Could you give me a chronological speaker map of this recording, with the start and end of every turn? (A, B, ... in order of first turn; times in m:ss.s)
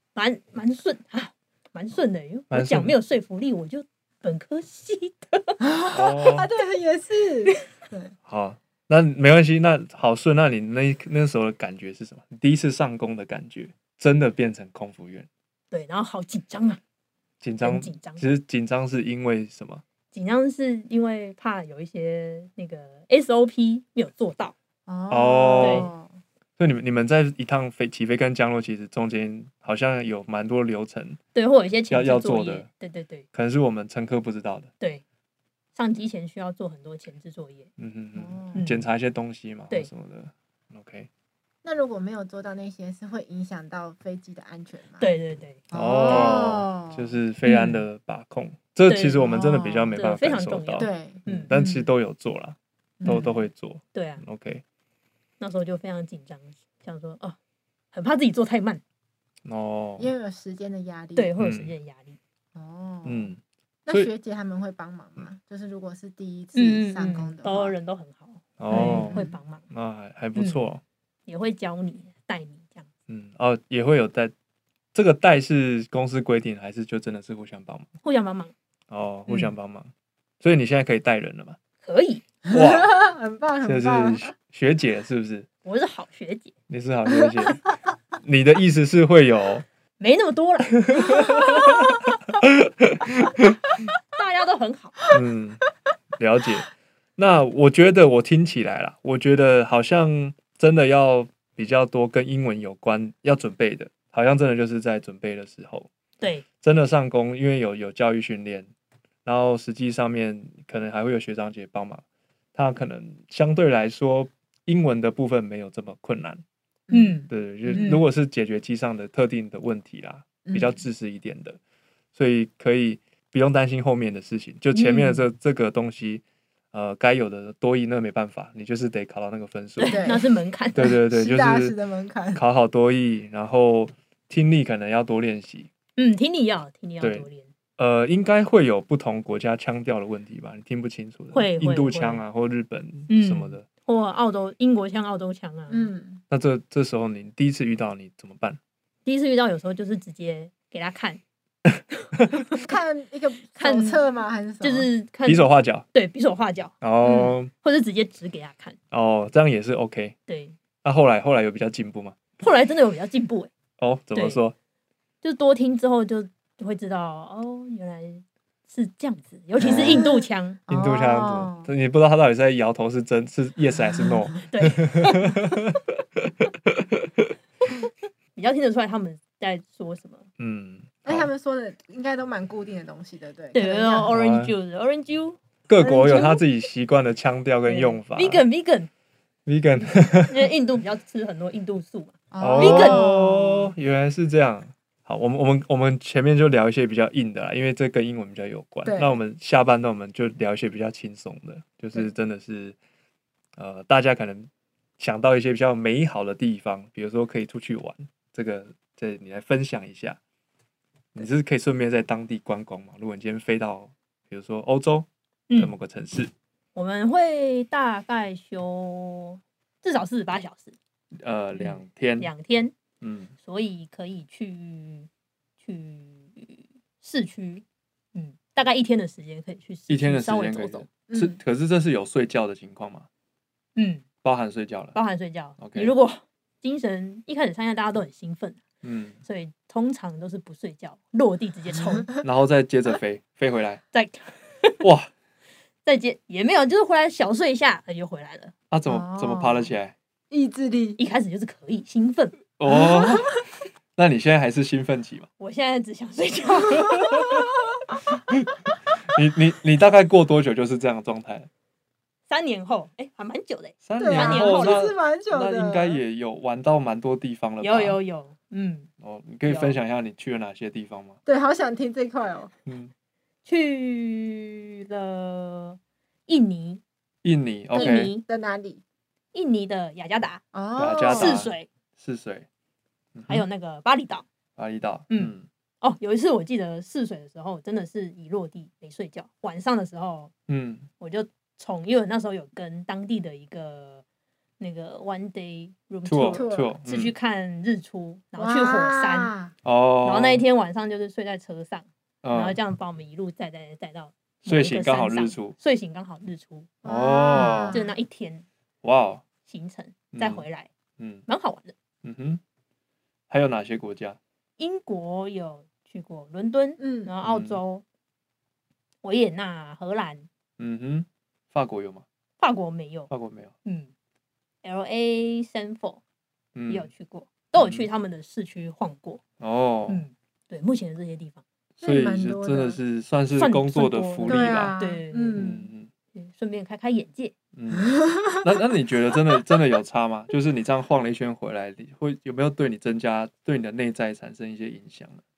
0:00.2-0:05.6 A
0:02.5-0:03.0 B
0:05.6-0:08.1 C
0:05.9-0:06.5 B
0:08.3-0:15.3 B
0:15.7-0:16.8 A
0:17.4-0:19.8 B
0:17.6-0:18.2 A
0:20.1-0:24.6 A
0:24.9-0:26.2 C
0:25.1-0:25.9 B
0:25.6-0:25.9 A
0:26.6-0:31.2 B
0:31.3-0:33.3 A
0:31.9-0:32.7 B
0:33.3-0:34.7 B
0:35.8-0:37.7 A
0:37.8-0:41.1 B
0:38.2-0:38.7 C
0:38.5-0:38.8 A
0:41.6-0:45.1 C
0:45.0-0:46.4 A
0:45.7-0:47.2 C
0:45.7-0:54.6 B
0:47.5-0:47.8 A
0:48.9-0:49.4 A
0:49.2-0:50.0 C
0:49.9-0:51.5 A
0:50.8-0:51.9 C
0:53.0-0:53.5 C
0:53.9-0:54.2 A
0:55.4-0:57.4 A
0:57.9-0:58.8 A
0:59.4-1:00.1 B
1:00.0-1:01.3 C
1:01.2-1:02.2 A
1:01.4-1:01.7 B
1:02.5-1:03.3 C
1:03.0-1:04.1 B
1:03.9-1:07.8 C
1:06.6-1:09.6 A
1:08.6-1:10.8 B
1:08.7-1:09.4 C
1:10.4-1:10.7 A
1:11.3-1:12.9 A
1:13.1-1:14.3 B
1:14.9-1:17.9 B
1:18.0-1:18.5 A
1:18.9-1:21.6 B
1:21.8-1:22.2 A
1:22.5-1:24.3 C
1:22.5-1:23.0 B
1:23.6-1:25.5 B
1:25.6-1:26.5 A
1:26.7-1:27.6 B
1:27.2-1:27.5 C
1:28.2-1:29.7 B
1:30.0-1:31.4 A
1:30.8-1:33.6 B
1:34.1-1:35.0 A
1:35.1-1:35.6 B
1:36.2-1:45.9 B
1:46.2-1:46.5 A
1:46.6-1:48.7 B
1:49.2-1:52.0 B
1:52.6-1:56.4 B
1:56.9-1:58.0 C
1:56.9-1:58.0 A
1:57.3-2:01.6 B
2:00.4-2:00.8 C
2:02.1-2:10.1 B
2:04.7-2:05.2 A
2:09.8-2:11.0 A
2:09.9-2:10.2 C
2:10.8-2:11.8 B
2:10.8-2:12.4 C
2:12.4-2:15.7 B
2:16.0-2:17.5 A
2:17.0-2:17.3 B
2:17.8-2:23.7 B
2:21.3-2:22.2 A
2:23.1-2:25.9 A
2:25.7-2:26.2 C
2:26.3-2:28.6 B
2:29.1-2:31.2 A
2:32.3-2:32.6 A
2:32.6-2:34.9 C
2:33.6-2:34.0 A
2:34.6-2:38.8 A
2:35.3-2:35.8 B
2:36.8-2:37.5 B
2:38.9-2:40.2 B
2:40.3-2:40.6 A
2:40.8-2:42.3 B
2:42.4-2:43.5 A
2:43.8-2:44.6 B
2:44.1-2:44.4 A
2:45.2-2:50.6 A
2:49.6-2:50.1 B
2:49.6-2:51.7 C
2:50.7-2:57.3 B
2:54.5-2:55.4 A
2:58.4-3:00.3 A
3:00.4-3:01.3 B
3:01.0-3:04.1 C
3:03.5-3:06.4 A
3:04.1-3:04.5 B
3:05.7-3:08.4 B
3:07.7-3:08.9 A
3:09.5-3:10.5 B
3:10.3-3:13.1 A
3:12.3-3:13.7 C
3:12.4-3:22.8 B
3:18.8-3:19.2 C
3:23.6-3:30.2 B
3:31.2-3:36.3 B
3:35.5-3:35.7 A
3:36.8-3:40.8 A
3:41.2-3:42.3 B
3:41.6-3:42.7 A
3:43.0-3:43.3 B
3:43.4-3:45.1 A
3:45.6-3:47.6 A
3:48.2-3:50.9 A
3:49.9-3:53.1 B
3:51.1-3:51.4 C
3:53.8-3:54.0 A
3:54.2-3:55.0 B
3:54.9-3:58.6 A
3:55.6-3:55.9 B
3:58.8-3:59.2 B
3:59.2-4:02.1 A
4:02.2-4:03.8 B
4:03.9-4:04.8 A
4:04.8-4:05.1 B
4:05.8-4:08.5 A
4:08.7-4:10.0 B
4:08.9-4:09.8 C
4:10.3-4:11.0 C
4:11.0-4:12.4 A
4:12.6-4:13.3 B
4:12.7-4:13.4 C
4:14.0-4:15.3 B
4:15.4-4:17.4 A
4:16.9-4:17.4 B
4:19.0-4:21.5 B
4:22.3-4:24.9 A
4:23.8-4:28.0 B
4:24.0-4:26.0 C
4:27.6-4:28.9 A
4:29.0-4:31.2 B
4:29.5-4:29.8 A
4:31.3-4:32.5 C
4:32.7-4:32.9 B
4:33.4-4:36.8 A
4:37.2-4:38.1 B
4:37.7-4:38.2 A
4:37.8-4:38.8 C
4:39.3-4:40.4 A
4:40.5-4:41.5 C
4:40.8-4:42.5 B
4:41.1-4:41.7 A
4:43.1-4:43.4 B
4:43.3-4:44.2 A
4:44.6-4:45.5 B
4:45.1-4:50.3 A
4:50.5-4:50.9 B
4:51.0-4:54.0 A
4:54.6-4:59.3 A
4:56.1-4:57.1 B
4:56.3-4:56.7 C
4:58.4-4:59.5 C
4:59.6-5:00.4 B
5:00.0-5:06.8 A
5:02.2-5:02.6 B
5:04.4-5:05.6 B
5:06.8-5:07.8 B
5:06.8-5:07.9 C
5:07.3-5:08.5 A
5:08.8-5:09.2 B
5:09.4-5:10.7 A
5:10.1-5:10.4 B
5:11.0-5:11.3 B
5:11.3-5:11.7 A
5:12.0-5:12.4 B
5:13.3-5:14.2 B
5:14.6-5:17.8 A
5:16.8-5:17.1 C
5:17.2-5:17.6 B
5:19.0-5:20.3 A
5:20.6-5:22.0 B
5:22.4-5:23.1 A
5:23.1-5:23.5 B
5:23.6-5:23.9 A
5:24.6-5:26.0 A
5:26.6-5:26.9 B
5:26.7-5:29.2 A
5:27.6-5:27.9 B
5:29.4-5:30.0 B
5:29.9-5:31.4 A
5:31.8-5:34.8 B
5:31.8-5:32.8 C
5:33.3-5:35.5 A
5:34.2-5:35.7 C
5:35.4-5:35.9 B
5:36.1-5:37.3 A
5:37.5-5:45.2 B
5:37.7-5:38.5 C